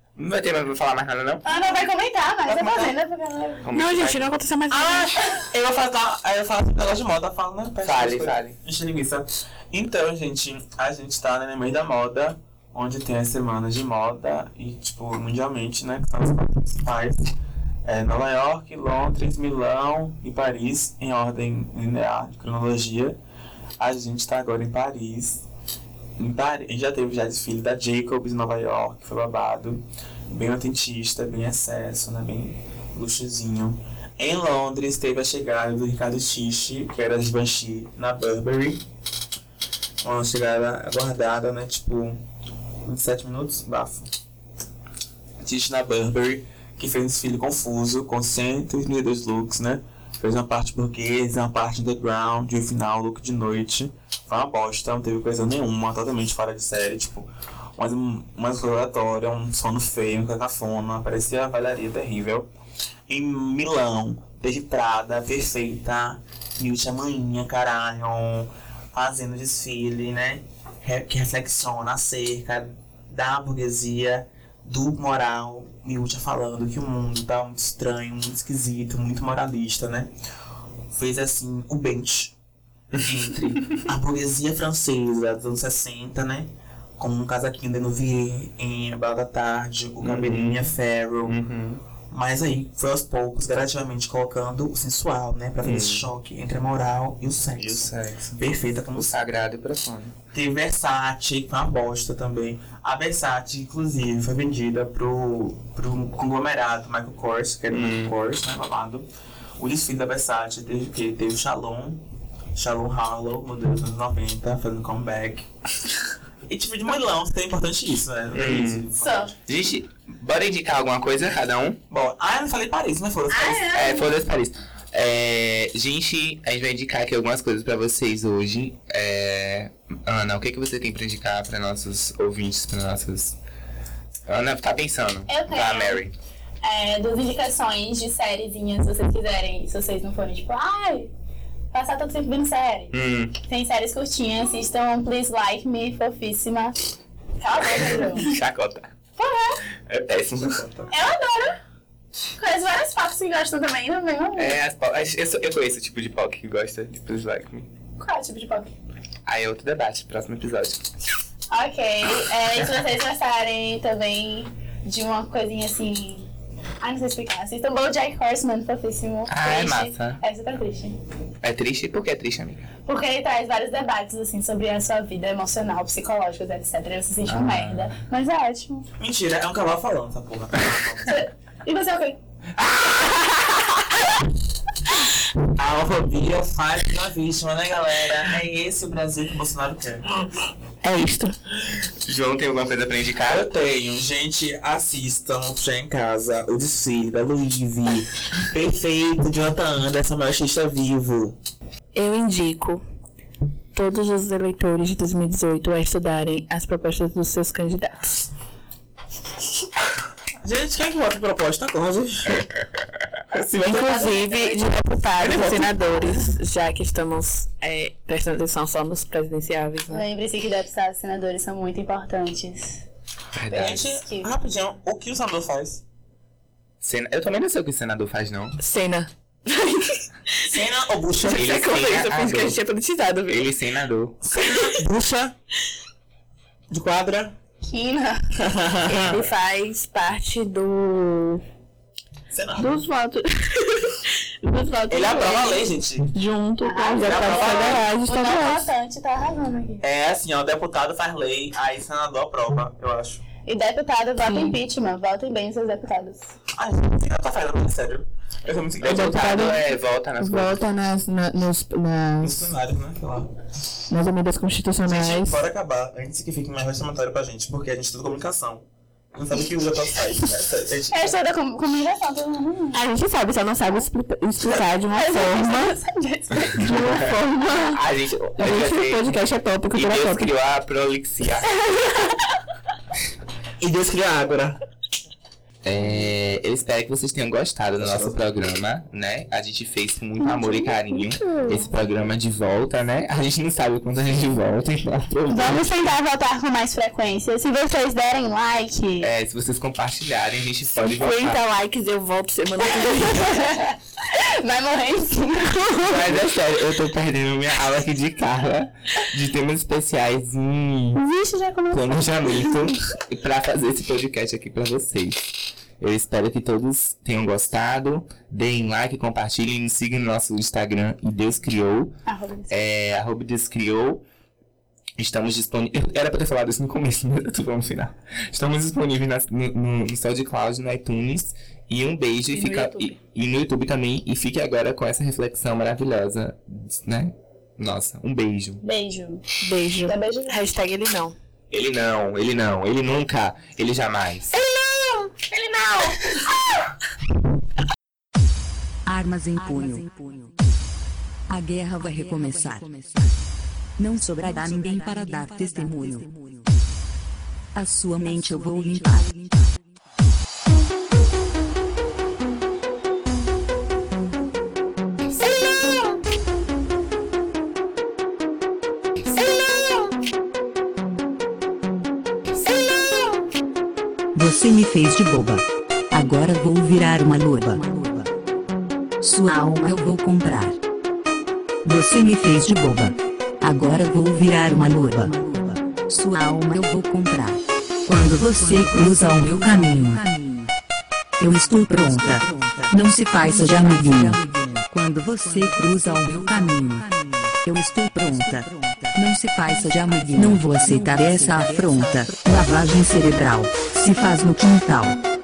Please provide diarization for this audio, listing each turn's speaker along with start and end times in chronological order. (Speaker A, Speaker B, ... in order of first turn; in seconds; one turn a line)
Speaker A: 0.2-1.4
Speaker B: 1.4-3.7
Speaker C: 2.5-3.0
Speaker A: 3.6-4.4
Speaker D: 3.7-5.3
Speaker C: 4.7-17.3
Speaker A: 7.8-8.6
Speaker C: 17.9-23.2
Speaker C: 23.8-25.4
Speaker C: 26.2-38.8
Speaker C: 40.0-42.2
Speaker C: 42.9-44.1
Speaker C: 45.4-62.5
Speaker C: 63.1-80.1
Speaker C: 80.9-82.3
Speaker A: 83.0-83.8
Speaker C: 83.0-91.4
Speaker A: 90.0-90.7
Speaker A: 91.3-91.8
Speaker C: 92.0-99.2
Speaker A: 95.6-96.1
Speaker A: 97.6-100.2
Speaker C: 100.3-109.1
Speaker A: 107.7-108.1
Speaker C: 109.6-115.5
Speaker C: 116.5-119.4
Speaker A: 118.3-118.9
Speaker B: 119.0-119.3
Speaker A: 119.5-121.8
Speaker C: 121.9-123.8
Speaker B: 123.3-124.2
Speaker A: 123.7-133.4
Speaker A: 134.3-136.1
Speaker B: 135.3-136.0
Speaker B: 136.6-141.1
Speaker B: 141.7-146.9
Speaker A: 142.9-143.4
Speaker B: 147.4-148.3
Speaker A: 147.6-148.9
Speaker B: 149.2-149.6
Speaker A: 149.9-150.6
Speaker C: 150.3-150.9
Speaker B: 150.9-151.6
Speaker B: 152.4-154.6
Speaker A: 154.4-157.7
Speaker B: 158.0-158.7
Speaker A: 159.3-160.8
Speaker B: 161.5-166.3
Speaker B: 166.8-171.0
Speaker A: 169.3-170.2
Speaker A: 171.4-172.7
Speaker B: 172.9-178.9
Speaker A: 177.3-177.9
Speaker C: 179.0-181.2
Speaker B: 181.1-182.2
Speaker A: 182.6-183.8
Speaker C: 185.5-190.3
Speaker D: 190.8-191.4
Speaker A: 192.1-193.5
Speaker C: 193.2-201.4
Speaker D: 201.9-202.8
Speaker D: 203.7-208.3
Speaker C: 210.4-212.5
Speaker C: 213.3-214.0
Speaker D: 213.5-220.0
Speaker B: 213.7-214.7
Speaker C: 215.2-216.3
Speaker B: 219.9-222.8
Speaker A: 223.3-223.9
Speaker C: 223.5-225.8
Speaker B: 223.9-224.3
Speaker A: 226.8-228.6
Speaker D: 228.6-230.0
Speaker C: 230.4-231.6
Speaker D: 231.2-233.5
Speaker A: 231.3-232.6
Speaker A: 233.3-234.2
Speaker C: 234.3-235.3
Speaker D: 234.4-234.8
Speaker C: 236.7-237.4
Speaker B: 237.6-238.3
Speaker C: 238.4-239.3
Speaker D: 238.9-241.4
Speaker C: 242.3-242.9
Speaker D: 242.6-248.7
Speaker C: 244.9-246.1
Speaker B: 246.6-249.9
Speaker C: 247.0-247.9
Speaker C: 249.8-253.2
Speaker B: 253.5-256.3
Speaker D: 254.2-254.6
Speaker C: 256.6-259.3
Speaker A: 258.8-260.6
Speaker D: 258.8-262.5
Speaker C: 262.2-263.3
Speaker D: 263.9-265.4
Speaker C: 264.9-271.2
Speaker B: 270.9-272.8
Speaker D: 272.7-275.8
Speaker B: 274.5-276.8
Speaker D: 276.6-277.8
Speaker A: 276.6-277.2
Speaker A: 277.7-279.2
Speaker D: 278.4-280.3
Speaker A: 279.7-281.5
Speaker D: 281.5-282.2
Speaker C: 283.6-284.6
Speaker A: 285.6-295.8
Speaker C: 287.8-288.2
Speaker D: 290.2-291.7
Speaker B: 295.3-299.1
Speaker A: 299.0-301.4
Speaker D: 300.8-303.6
Speaker B: 302.7-305.7
Speaker D: 305.5-306.2
Speaker A: 305.8-311.0
Speaker B: 311.0-311.9
Speaker A: 311.7-321.9
Speaker B: 322.1-322.5
Speaker A: 322.5-324.0
Speaker A: 325.0-338.6
Speaker B: 332.3-332.9
Speaker B: 338.6-339.2
Speaker D: 339.4-341.1
Speaker B: 339.8-340.4
Speaker A: 341.5-344.3
Speaker D: 344.4-345.1
Speaker B: 345.4-345.8
Speaker E: 348.9-350.3
Speaker E: 351.3-353.1
Speaker E: 353.8-356.4
Speaker E: 357.6-359.5
Speaker E: 374.1-378.1
Speaker E: 379.0-380.6
Speaker E: 381.6-390.5
Speaker E: 391.2-405.0